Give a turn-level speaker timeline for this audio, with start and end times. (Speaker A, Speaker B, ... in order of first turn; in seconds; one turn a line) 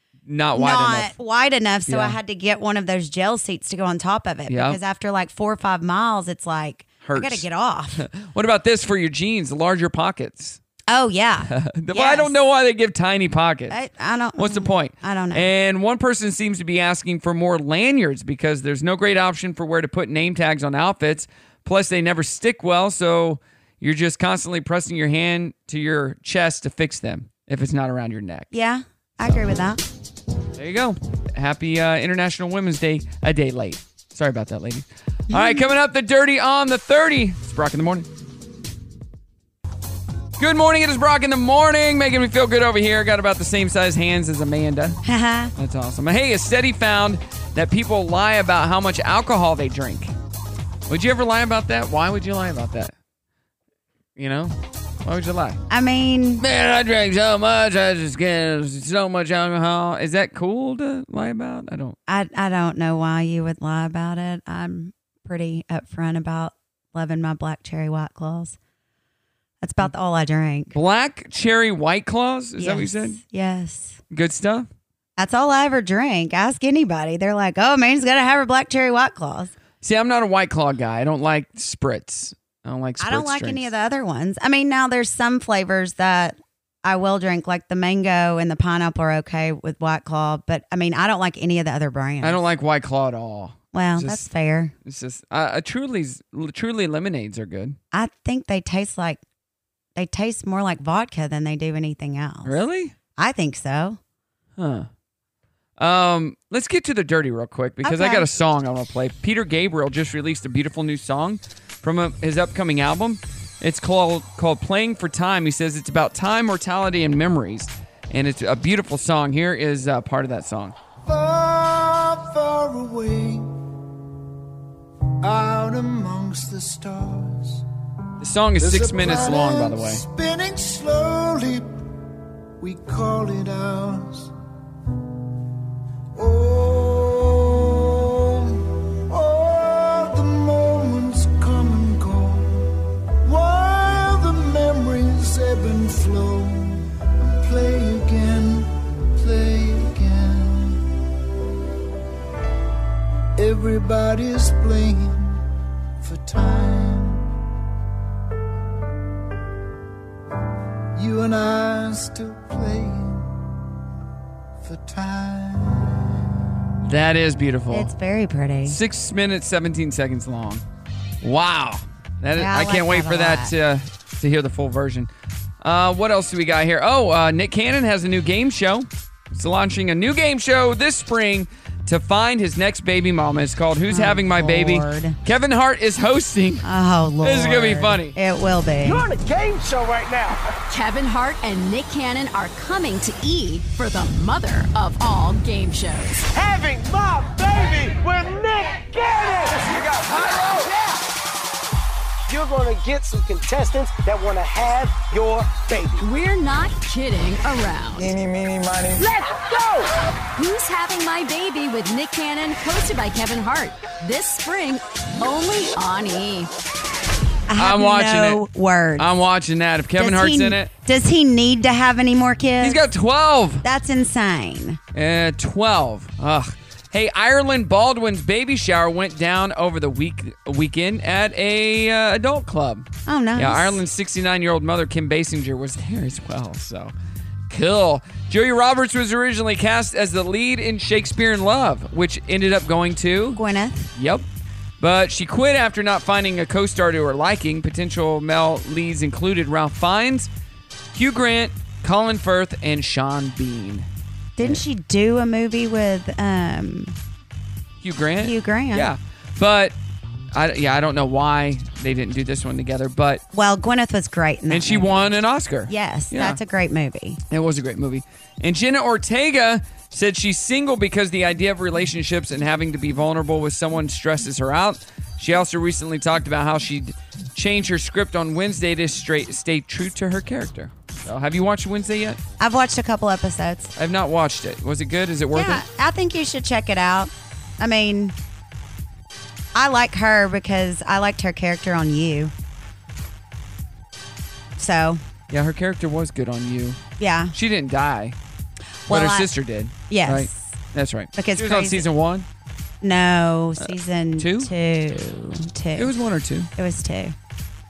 Speaker A: 0.3-1.1
Speaker B: 0.6-8.0
Speaker A: 1.9-2.2
Speaker A: 4.5-4.8
Speaker A: 7.0-7.5
Speaker A: 8.0-10.6
Speaker B: 10.9-12.3
Speaker A: 11.5-13.8
Speaker B: 13.7-15.5
Speaker A: 14.4-28.5
Speaker B: 28.5-29.8
Speaker A: 30.6-38.1
Speaker B: 35.3-35.6
Speaker A: 40.4-45.0
Speaker B: 45.0-45.5
Speaker A: 45.6-50.1
Speaker A: 50.9-52.9
Speaker A: 54.2-55.6
Speaker B: 55.7-56.4
Speaker A: 56.4-62.0
Speaker B: 62.1-68.6
Speaker B: 69.6-70.7
Speaker A: 70.7-73.2
Speaker B: 72.6-74.0
Speaker A: 74.1-74.7
Speaker B: 75.2-79.5
Speaker A: 79.8-83.7
Speaker B: 83.0-92.4
Speaker A: 92.2-94.3
Speaker B: 93.7-94.7
Speaker A: 94.8-97.8
Speaker B: 97.9-99.2
Speaker B: 100.0-102.6
Speaker A: 102.4-103.0
Speaker B: 103.2-104.0
Speaker A: 104.6-104.9
Speaker A: 105.8-120.8
Speaker B: 107.8-108.3
Speaker C: 121.0-123.5
Speaker C: 125.2-127.6
Speaker A: 128.2-130.0
Speaker C: 128.6-131.8
Speaker C: 132.6-134.3
Speaker C: 136.2-142.7
Speaker C: 143.2-150.9
Speaker C: 153.4-155.4
Speaker C: 156.0-157.2
Speaker C: 161.0-163.3
Speaker C: 164.6-166.1
Speaker A: 166.8-167.9
Speaker B: 167.7-168.8
Speaker A: 168.7-170.6
Speaker A: 171.2-175.1
Speaker B: 172.3-173.5
Speaker A: 175.6-186.7
Speaker B: 183.9-185.2
Speaker B: 186.6-189.1
Speaker A: 187.2-188.2
Speaker D: 188.8-190.4
Speaker E: 190.7-196.3
Speaker D: 196.3-201.0
Speaker D: 202.3-206.1
Speaker E: 206.0-208.2
Speaker D: 208.0-209.9
Speaker E: 210.4-216.5
Speaker B: 217.5-219.1
Speaker A: 217.6-218.4
Speaker A: 219.0-220.7
Speaker B: 220.0-222.8
Speaker A: 222.6-223.7
Speaker B: 223.6-224.8
Speaker A: 224.9-236.9
Speaker B: 233.1-233.8
Speaker A: 237.5-243.4
Speaker B: 243.4-243.9
Speaker A: 243.9-244.3
Speaker A: 244.8-250.3
Speaker A: 250.9-253.9
Speaker B: 254.4-257.0
Speaker A: 257.8-259.8
Speaker B: 258.2-258.9
Speaker A: 260.3-263.2
Speaker B: 263.3-265.0
Speaker A: 264.5-266.4
Speaker B: 265.7-267.2
Speaker A: 267.3-282.2
Speaker B: 282.4-283.7
Speaker A: 283.8-285.6
Speaker B: 285.3-288.1
Speaker B: 289.5-292.3
Speaker B: 294.6-295.0
Speaker A: 295.3-296.8
Speaker B: 297.0-297.3
Speaker A: 297.3-298.2
Speaker B: 298.9-299.3
Speaker A: 298.9-302.3
Speaker B: 299.9-300.6
Speaker B: 301.1-301.8
Speaker B: 302.8-305.9
Speaker A: 303.6-304.5
Speaker A: 305.8-306.5
Speaker B: 306.6-307.1